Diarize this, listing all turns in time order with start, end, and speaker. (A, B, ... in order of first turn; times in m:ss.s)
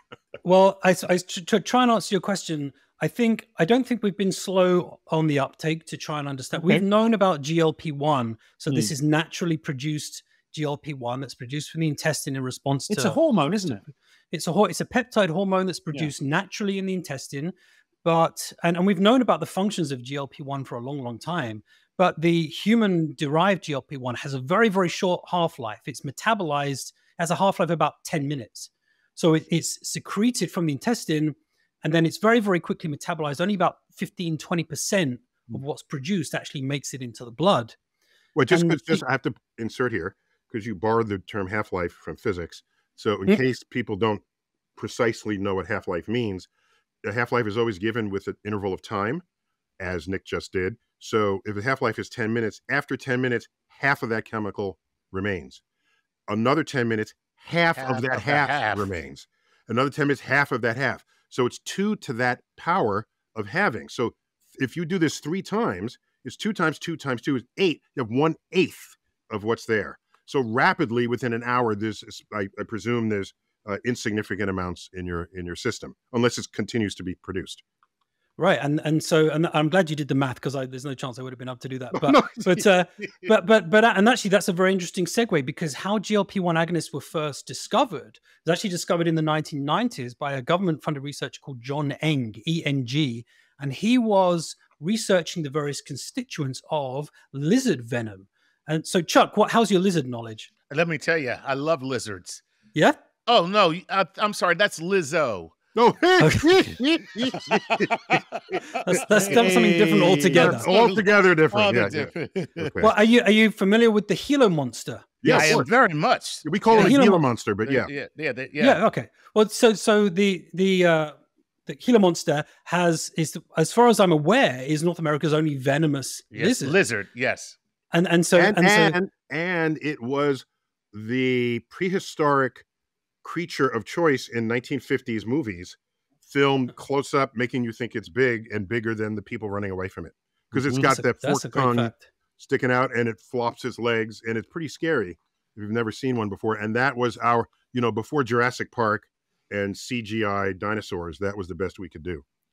0:00.4-0:13.2 A
0:06.5-0:06.8 B
0:12.9-0:13.8 B
0:14.3-0:37.8 A
0:38.4-0:44.2 C
0:38.5-0:39.0 A
0:44.8-0:46.5 C
0:47.0-0:49.2 C
0:49.8-0:55.6 C
0:56.3-1:17.6 C
0:57.8-0:58.9 D
1:18.4-1:40.5 A
1:21.9-1:22.7 C
1:40.7-1:42.4 D
1:43.3-1:45.6 D
1:45.8-1:48.2 C
1:46.2-1:46.8 A
1:47.5-1:52.7 D
1:48.8-1:50.7 A
1:49.2-1:50.5 B
1:50.3-1:52.9 C
1:52.8-1:55.6 A
1:55.2-1:55.7 C
1:55.3-1:57.0 D
1:56.4-1:57.9 C
1:56.8-1:57.2 A
1:57.6-1:58.8 D
1:58.6-2:01.2 A
2:01.7-2:06.8 A
2:06.3-2:07.6 D
2:07.9-2:09.0 A
2:08.4-2:12.6 C
2:13.2-2:32.2 C
2:20.7-2:22.1 A